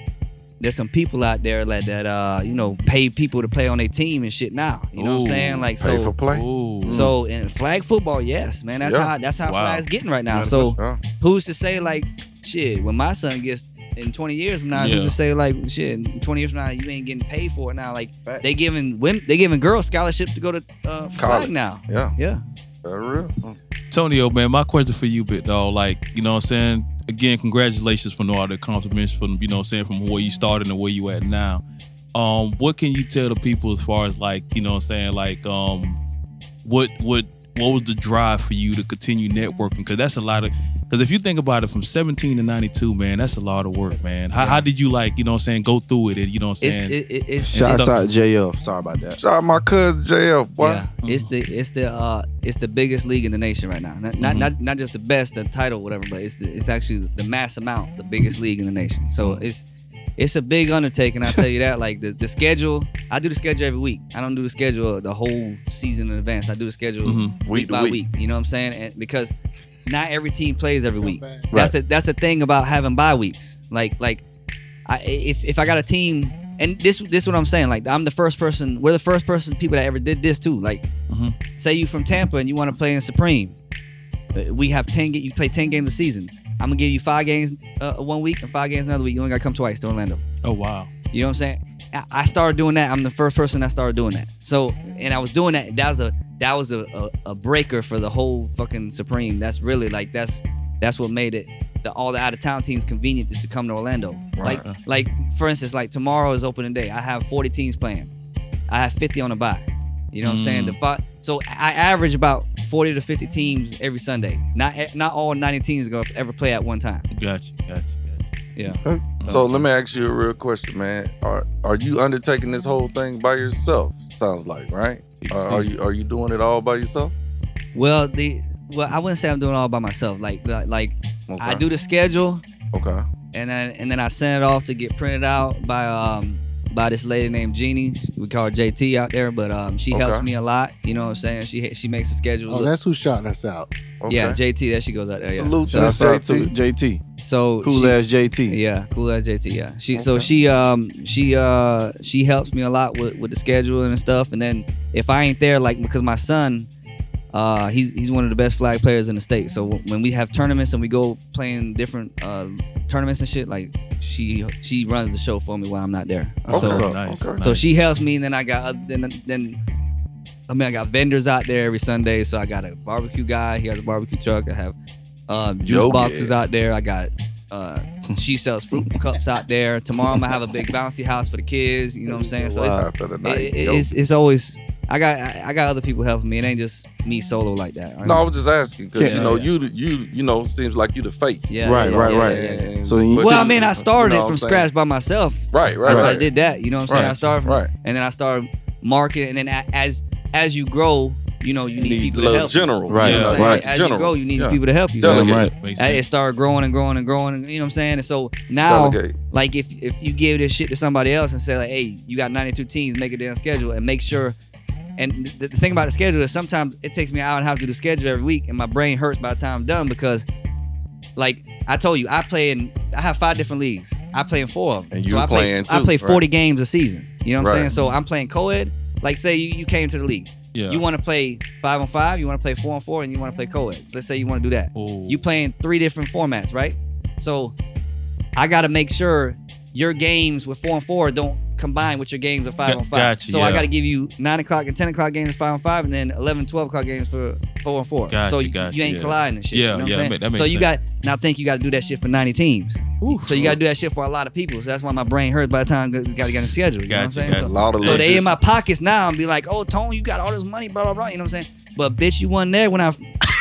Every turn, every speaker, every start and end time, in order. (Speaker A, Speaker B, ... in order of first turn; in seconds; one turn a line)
Speaker A: 0.6-6.1
Speaker B: 5.0-5.7
Speaker C: 5.8-7.1
Speaker B: 6.3-7.1
Speaker A: 6.9-22.4
Speaker C: 8.8-9.1
Speaker B: 9.4-9.8
Speaker C: 10.3-11.0
Speaker B: 14.7-15.2
Speaker C: 21.2-22.1
Speaker C: 22.8-23.3
Speaker B: 23.9-31.6
Speaker B: 32.1-36.0
Speaker B: 36.6-47.0
Speaker A: 44.4-44.6
Speaker A: 46.6-47.9
Speaker D: 47.5-49.2
Speaker B: 47.5-47.9
Speaker C: 49.2-50.9
Speaker A: 50.6-59.6
Speaker B: 50.9-51.3
Speaker B: 54.2-54.5
Speaker B: 59.2-59.5
Speaker A: 60.2-69.3
Speaker B: 67.0-67.4
Speaker C: 67.4-68.0
Speaker A: 69.8-74.2
Speaker E: 70.9-71.5
Speaker A: 74.8-80.9
Speaker B: 81.1-81.4
Speaker A: 81.5-83.5
Speaker A: 84.3-90.2
Speaker B: 90.4-90.9
Speaker A: 91.1-108.1
Speaker C: 104.4-104.6
Speaker A: 108.7-117.1
Speaker B: 110.2-110.8
Speaker B: 117.1-118.3
Speaker A: 118.5-118.8
Speaker D: 118.7-119.0
Speaker B: 119.2-119.7
Speaker C: 119.3-127.1
Speaker B: 125.1-125.7
Speaker A: 127.7-132.4
Speaker C: 131.3-131.6
Speaker C: 132.7-133.1
Speaker A: 133.3-142.7
Speaker C: 139.9-140.3
Speaker E: 142.5-143.7
Speaker C: 144.0-144.4
Speaker A: 144.1-146.0
Speaker C: 145.3-146.5
Speaker D: 145.7-147.0
Speaker A: 147.2-156.7
Speaker D: 147.6-148.6
Speaker C: 149.9-150.3
Speaker A: 157.3-166.8
Speaker D: 166.4-167.0
Speaker C: 166.5-167.4
Speaker B: 166.6-167.6
Speaker A: 167.4-169.6
Speaker A: 170.5-174.7
Speaker A: 175.3-188.2
Speaker C: 175.6-176.3
Speaker C: 182.2-183.9
Speaker C: 188.0-194.7
Speaker D: 188.9-189.3
Speaker B: 189.1-189.5
Speaker A: 189.1-189.4
Speaker A: 191.5-214.3
Speaker D: 191.6-193.5
Speaker C: 195.5-196.3
Speaker D: 195.8-196.1
Speaker C: 196.9-197.7
Speaker B: 196.9-197.3
Speaker C: 201.8-205.5
Speaker D: 202.9-203.6
Speaker B: 203.0-203.4
Speaker D: 205.0-205.5
Speaker B: 205.5-206.0
Speaker C: 208.7-209.1
Speaker A: 215.0-220.2
Speaker A: 221.2-237.5
Speaker C: 224.9-226.2
Speaker C: 227.4-227.7
Speaker B: 230.5-230.8
Speaker B: 234.7-235.2
Speaker A: 238.3-263.1
Speaker B: 242.7-243.7
Speaker B: 248.1-250.8
Speaker B: 253.0-253.4
Speaker C: 253.3-253.6
Speaker B: 256.9-258.2
Speaker C: 257.4-258.6